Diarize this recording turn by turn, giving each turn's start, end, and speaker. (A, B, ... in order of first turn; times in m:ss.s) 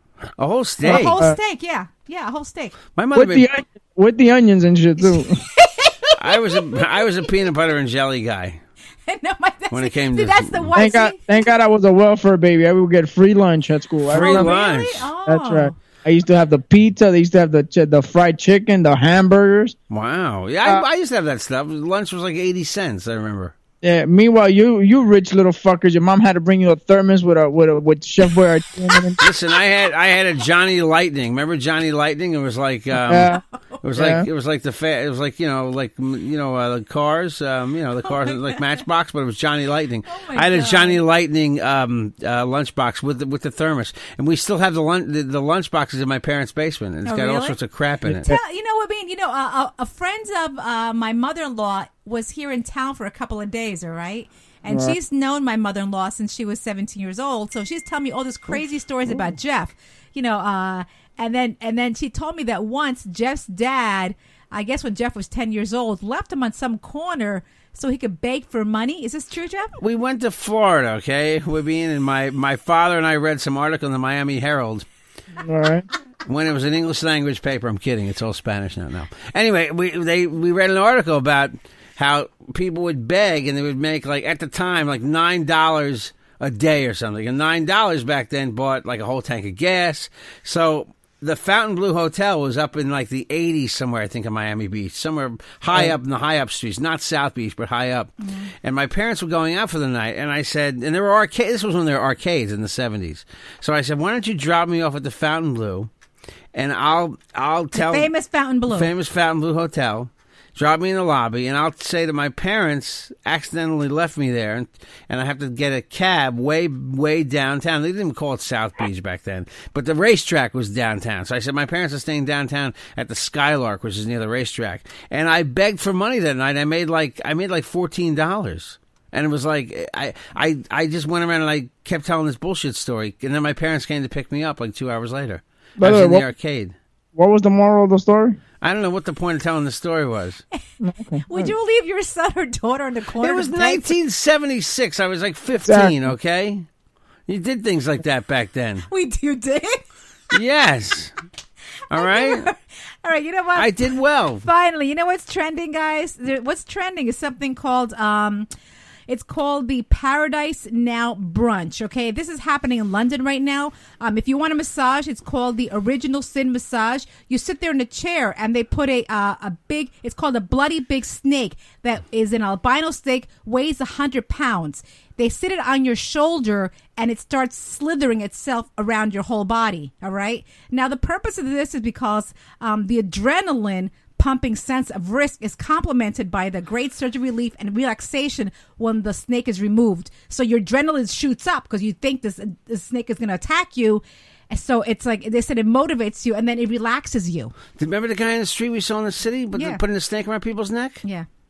0:00.4-0:01.2 A
0:00.8-0:01.4 B
0:00.8-0:02.8 C
0:03.0-0:03.5 A
0:03.1-0:05.4 B
0:05.0-0:07.3 C
0:06.2-0:08.6 A
0:09.1-0:11.5 C
0:09.7-0:10.8 A
0:10.8-0:14.6 B
0:14.1-0:15.1 A
0:14.2-0:15.8 C
0:15.3-0:19.8 B
0:19.9-0:23.6 A
0:23.8-0:29.2 B
0:29.2-0:48.3 A
0:32.9-0:33.4 B
0:34.0-0:34.3 B
0:38.1-0:38.6 C
0:40.1-0:41.0 C
0:47.1-0:47.6 C
0:48.1-0:48.4 B
0:48.2-1:09.7 C
0:54.7-0:55.0 B
1:09.8-1:14.9 A
1:15.4-1:15.9 B
1:16.3-1:45.9 A
1:38.2-1:38.5 C
1:46.5-1:48.1 A
1:47.7-1:48.9 C
1:48.7-2:16.7 A
2:15.8-2:16.3 B
2:17.2-2:18.4 B
2:18.6-2:20.4 A
2:20.8-2:21.5 B
2:21.2-2:24.0 C
2:23.2-2:26.7 A
2:25.6-2:26.1 B
2:27.3-2:28.9 A
2:28.9-2:29.8 C
2:30.3-2:31.1 A
2:31.9-2:32.5 A
2:31.9-2:33.8 C
2:33.6-2:34.5 A
2:34.4-2:38.5 C
2:39.1-3:17.6 C
3:17.8-3:21.0 A
3:19.6-3:19.8 C